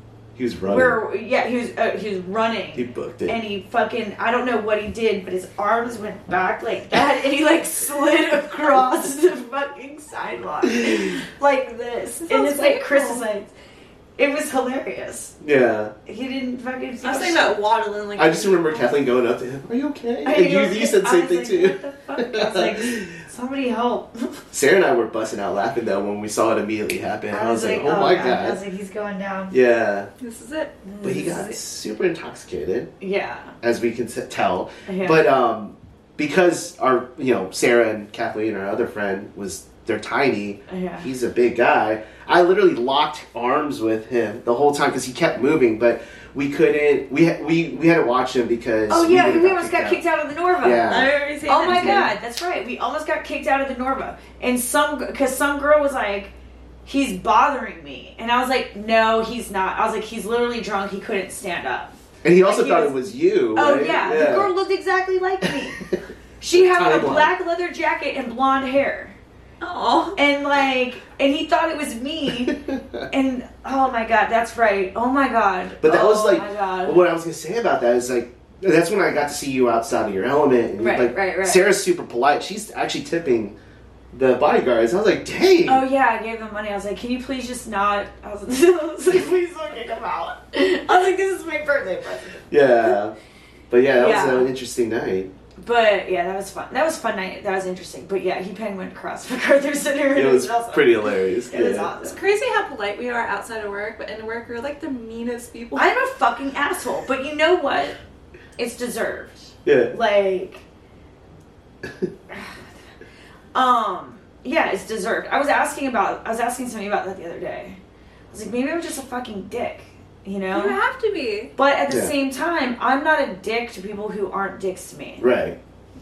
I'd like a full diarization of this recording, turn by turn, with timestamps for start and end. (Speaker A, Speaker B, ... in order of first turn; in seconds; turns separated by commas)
Speaker A: 0.4-1.0, Speaker B: 0.7-13.5, Speaker A: 2.8-3.4, Speaker C: 12.2-13.2, Speaker B: 14.2-15.3, Speaker A: 15.4-15.9, Speaker B: 16.1-17.6, Speaker C: 17.0-18.9, Speaker A: 18.2-23.2, Speaker B: 20.2-24.4, Speaker A: 24.5-28.6, Speaker B: 27.3-29.5, Speaker A: 29.5-30.1, Speaker C: 30.2-30.7, Speaker B: 30.9-31.6, Speaker A: 31.0-32.9, Speaker B: 33.0-33.5, Speaker A: 33.6-50.0, Speaker B: 34.9-35.2, Speaker B: 40.7-41.1, Speaker B: 48.9-50.9, Speaker A: 50.6-51.1, Speaker C: 50.9-52.1, Speaker B: 51.5-56.3, Speaker A: 51.6-52.1, Speaker B: 56.9-63.0, Speaker A: 62.2-64.5, Speaker B: 63.5-65.8, Speaker A: 65.5-66.0, Speaker B: 66.4-69.2, Speaker A: 66.5-67.3, Speaker C: 69.6-70.2, Speaker B: 70.2-72.6, Speaker A: 72.5-73.0, Speaker B: 73.1-77.0, Speaker A: 75.8-83.6, Speaker B: 80.8-81.7, Speaker A: 84.1-85.8, Speaker B: 85.7-93.0, Speaker A: 92.5-93.2, Speaker A: 93.7-95.3, Speaker B: 94.0-94.5, Speaker B: 95.6-102.2, Speaker A: 100.1-101.9, Speaker C: 102.0-105.9, Speaker B: 105.8-108.0, Speaker B: 108.6-110.6, Speaker A: 109.7-109.9, Speaker B: 112.3-112.6, Speaker B: 113.5-117.8, Speaker B: 118.3-120.8, Speaker C: 120.5-121.5, Speaker B: 121.6-125.3, Speaker A: 121.9-122.1, Speaker A: 125.2-125.6